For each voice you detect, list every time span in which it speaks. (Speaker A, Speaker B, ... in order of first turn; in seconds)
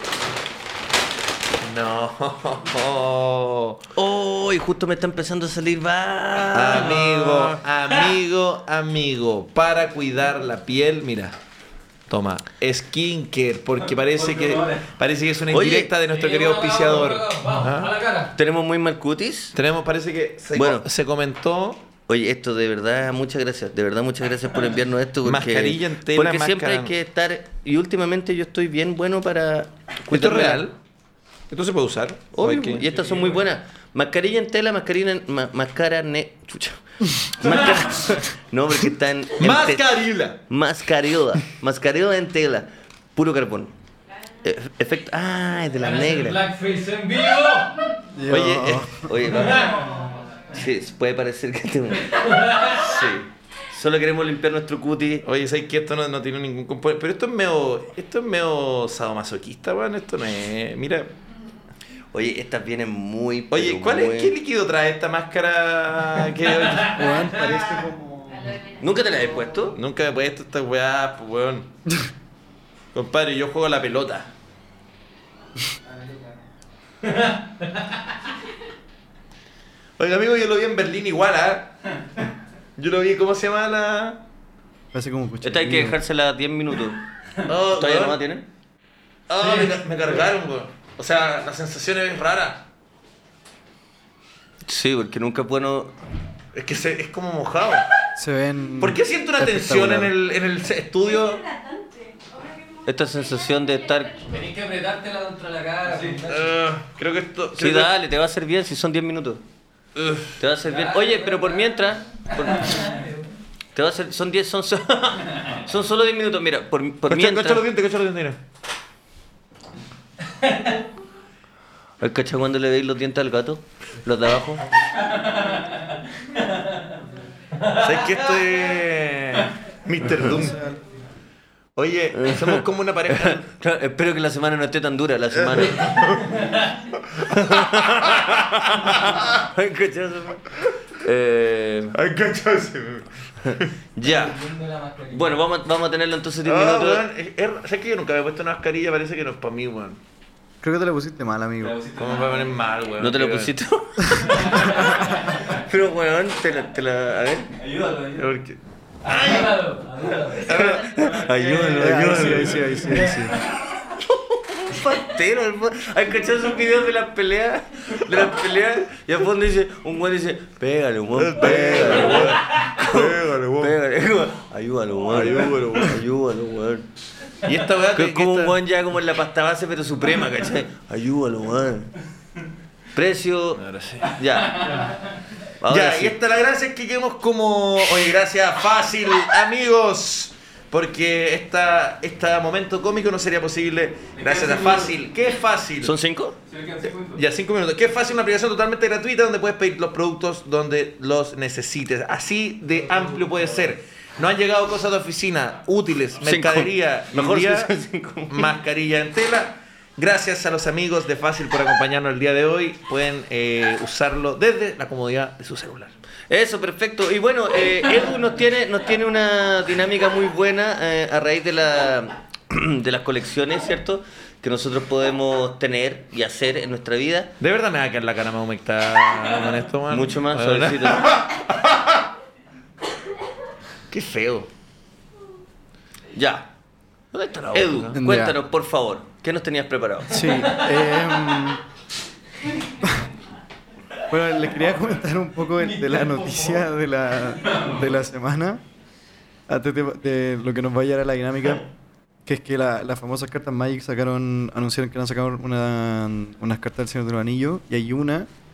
Speaker A: 1.6-3.8, 6.5-11.4, 12.1-17.9, 19.5-21.8, 25.2-26.9, 30.1-30.7, 31.5-33.3, 39.4-40.4, 48.3-48.9, 55.2-61.1, 63.5-67.1, 69.7-71.7, 72.9-74.3, 80.0-81.7, 82.8-84.2, 87.4-88.2, 89.3-92.7, 96.5-97.9, 98.8-101.5, 106.3-107.9, 110.0-110.3, 117.1-118.4, 127.7-130.6, 131.8-133.4, 135.4-136.4, 136.9-139.3, 141.9-143.7, 146.4-150.0, 151.9-153.5, 158.0-158.6, 159.1-159.4, 160.5-162.4, 171.2-173.8, 175.1-176.0, 177.4-178.6, 183.6-184.2, 185.7-195.9, 196.9-207.7, 208.3-215.9, 227.4-231.8, 233.9-234.5, 237.1-238.0
Speaker B: 3.9-7.5, 15.5-15.9, 18.3-19.5, 20.5-20.9, 22.1-30.6, 32.3-39.8, 40.5-43.7, 44.4-46.4, 49.0-49.8, 50.5-55.2, 62.1-64.3, 68.7-69.8, 85.4-87.0, 87.8-88.4, 94.6-95.9, 102.8-104.3, 107.5-109.4, 110.4-112.9, 113.7-117.6, 122.0-124.7, 132.1-136.0, 137.2-141.9, 143.4-144.4, 145.1-147.0, 153.0-157.5, 160.3-162.8, 164.0-176.9, 177.9-181.9, 182.9-184.9, 185.6-186.2, 195.8-196.4, 206.2-208.5, 216.3-227.3, 229.9-231.1, 236.1-236.5, 237.5-240.4
Speaker C: 16.1-18.3, 45.8-47.9, 49.4-49.8, 52.2-52.8, 104.3-106.5, 110.6-111.5, 112.4-113.3, 125.1-125.7, 136.3-136.7, 144.0-145.4, 159.0-160.7, 196.5-196.8
Speaker D: 48.1-49.2, 66.9-68.5, 84.9-86.0, 98.2-100.1, 150.6-151.9, 161.8-163.4, 237.9-238.4, 240.1-241.6, 244.1-248.6, 249.5-251.7, 252.2-258.3